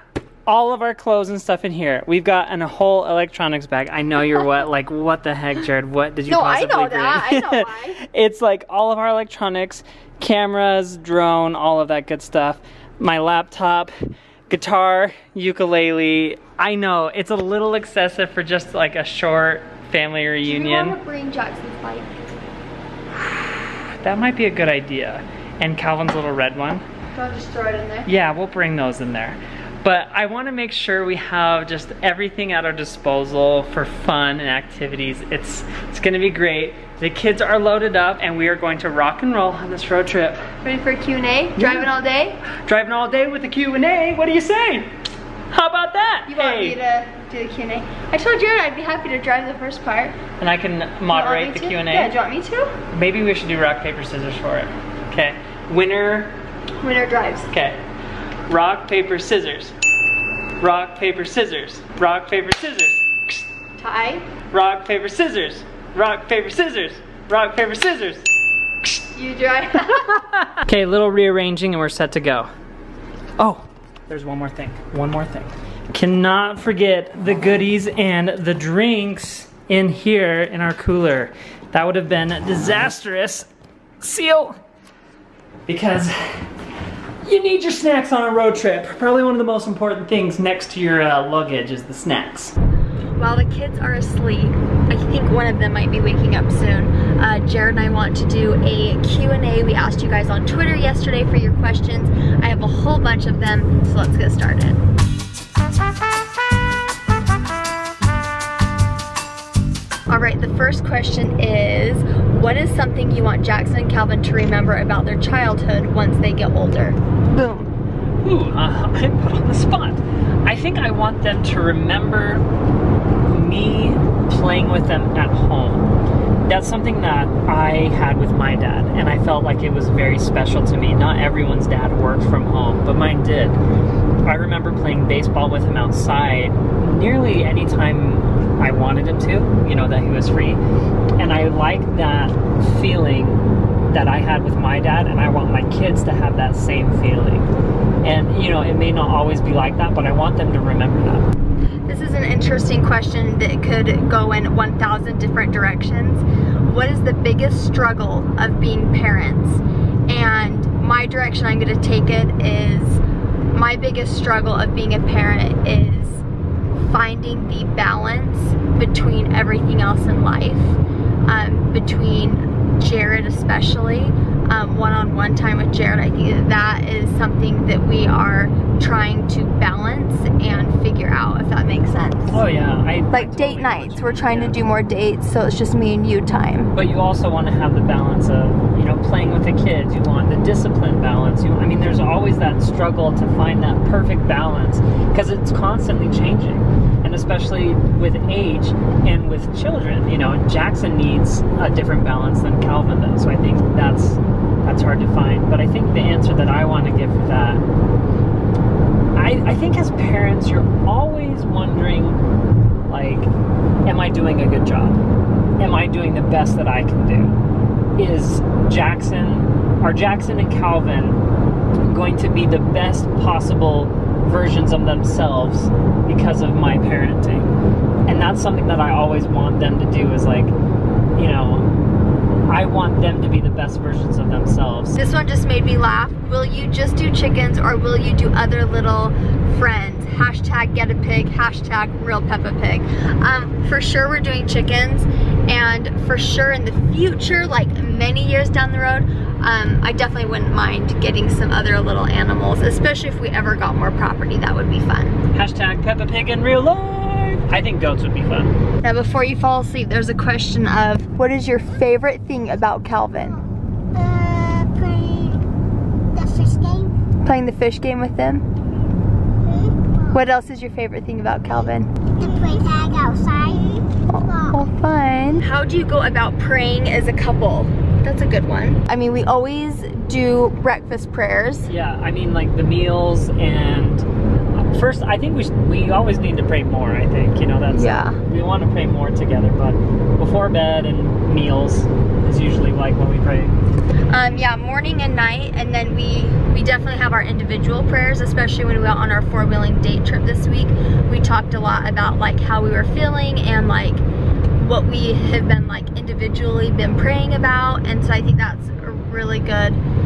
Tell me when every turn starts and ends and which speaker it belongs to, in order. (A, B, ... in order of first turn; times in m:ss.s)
0:00.4-0:13.9 A
0:06.3-0:08.0 B
0:14.5-0:21.0 A
0:20.4-0:22.2 B
0:23.1-0:26.8 A
0:27.1-0:28.1 B
0:28.1-0:40.4 A
0:40.6-0:42.4 B
0:41.6-0:41.9 A
0:42.6-0:44.9 A
0:45.5-0:46.8 A
0:46.2-0:50.2 B
0:50.4-0:52.1 A
0:51.1-0:52.7 B
0:52.9-0:56.3 A
0:56.8-0:57.5 B
0:57.5-0:57.8 A
0:58.5-0:59.7 A
1:00.6-1:03.4 A
1:03.8-1:04.3 B
1:04.5-1:08.3 A
1:09.1-1:10.2 B
1:10.0-1:12.5 A
1:13.4-1:23.5 A
1:24.0-1:24.6 A
1:25.7-1:26.5 A
1:27.2-1:32.6 A
1:33.2-1:44.8 B
1:50.1-1:57.7 B
1:58.2-2:02.4 A
2:03.2-2:05.9 A
2:06.5-2:13.6 A
2:14.2-2:20.6 A
2:21.2-2:27.5 A
2:28.0-2:31.2 A
2:31.9-2:43.0 B
2:43.5-2:46.2 B
2:46.8-3:02.4 B
3:02.3-3:04.6 A
3:03.1-3:06.7 B
3:06.7-3:27.6 A
3:29.2-3:32.2 A
3:32.9-3:33.3 A
3:33.8-3:35.0 A
3:35.6-3:37.4 A
3:38.0-3:41.2 A
3:41.8-3:47.5 A
3:48.1-3:50.5 A
3:51.2-3:51.7 A
3:52.5-3:55.0 A
3:55.0-4:15.2 B
4:15.3-4:18.6 A
4:18.8-4:23.4 B
4:23.9-4:25.4 C
4:26.1-4:26.9 C
4:27.2-4:28.4 B
4:29.5-4:30.1 C
4:30.1-4:31.9 B
4:32.2-4:33.8 C
4:34.1-4:41.7 B
4:41.7-4:44.0 A
4:44.6-4:53.5 A
4:47.7-4:48.2 B
4:54.1-5:04.0 B
5:04.6-5:09.8 B